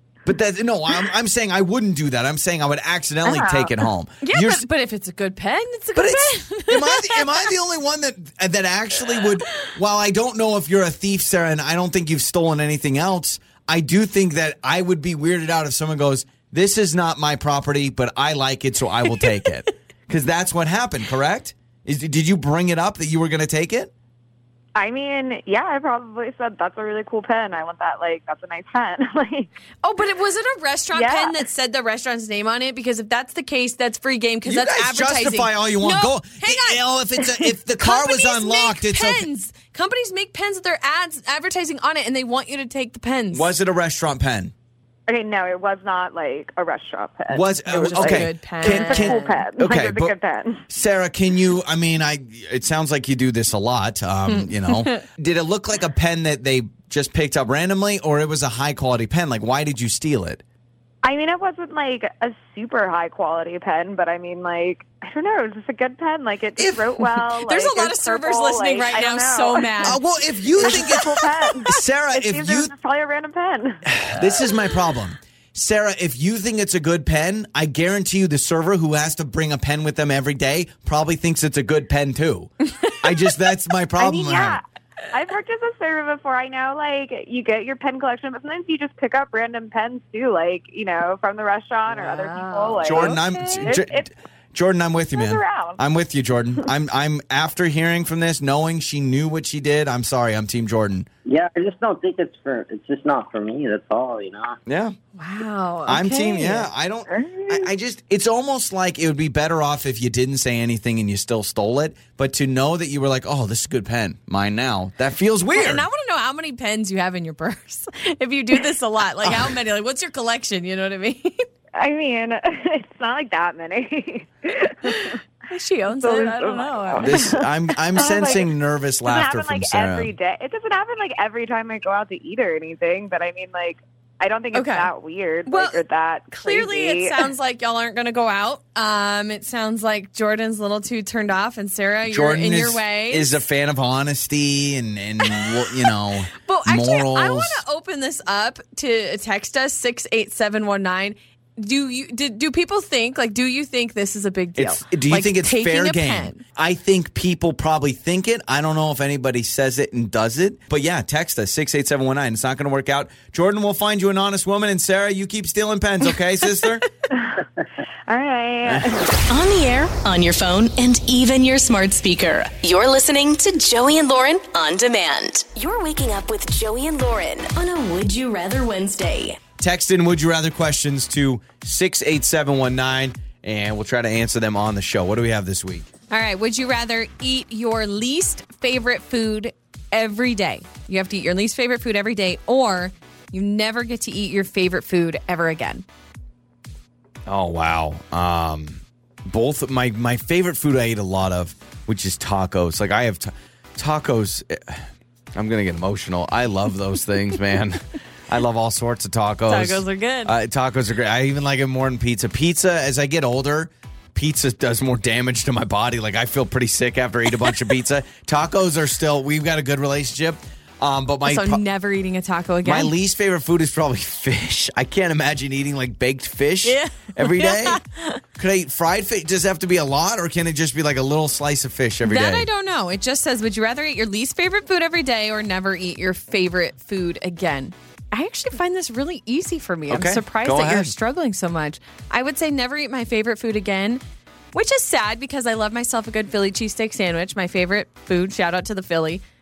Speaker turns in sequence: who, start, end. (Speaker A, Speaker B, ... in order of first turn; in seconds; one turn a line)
Speaker A: 0.2-4.6
Speaker B: 3.2-3.7
Speaker C: 4.2-7.5
Speaker A: 6.0-23.9
Speaker B: 24.8-29.5
Speaker C: 29.8-43.5
Speaker B: 30.9-31.4
Speaker A: 34.4-39.3
Speaker A: 43.3-44.5
Speaker B: 45.1-50.6
Speaker A: 47.3-50.1
Speaker C: 47.7-49.4
Speaker A: 50.7-60.4
Speaker C: 54.4-55.0
Speaker B: 61.0-73.9
Speaker A: 66.6-67.0
Speaker C: 67.3-70.0
Speaker A: 69.8-72.7
Speaker C: 70.6-71.0
Speaker A: 73.9-84.6
Speaker B: 84.0-94.1
Speaker C: 91.9-93.8
Speaker A: 92.8-101.1
Speaker B: 95.1-95.8
Speaker D: 101.2-104.6
Speaker A: 104.7-105.0
Speaker C: 105.2-106.7
Speaker A: 105.9-115.8
Speaker B: 107.2-107.5
Speaker C: 115.5-121.5
Speaker A: 119.2-119.5
Speaker B: 121.8-125.2
Speaker C: 124.9-127.2
Speaker B: 125.9-128.5
Speaker A: 127.0-130.1
Speaker C: 128.0-128.3
Speaker B: 129.0-137.2
Speaker C: 134.5-134.9
Speaker C: 135.4-143.4
Speaker A: 142.1-147.6
Speaker C: 146.4-156.4
Speaker A: 154.6-166.8
Speaker B: 167.1-167.4
Speaker B: 168.1-169.1
Speaker A: 168.6-168.9
Speaker E: 169.3-179.4
Speaker A: 179.6-185.9
Speaker C: 186.1-195.8
Speaker A: 197.2-221.6
Speaker C: 209.5-210.3
Speaker C: 221.2-222.9
Speaker A: 222.6-227.8
Speaker C: 226.6-228.2
Speaker A: 228.4-232.5
Speaker C: 232.0-244.0
Speaker A: 239.9-240.9
Speaker C: 244.5-249.2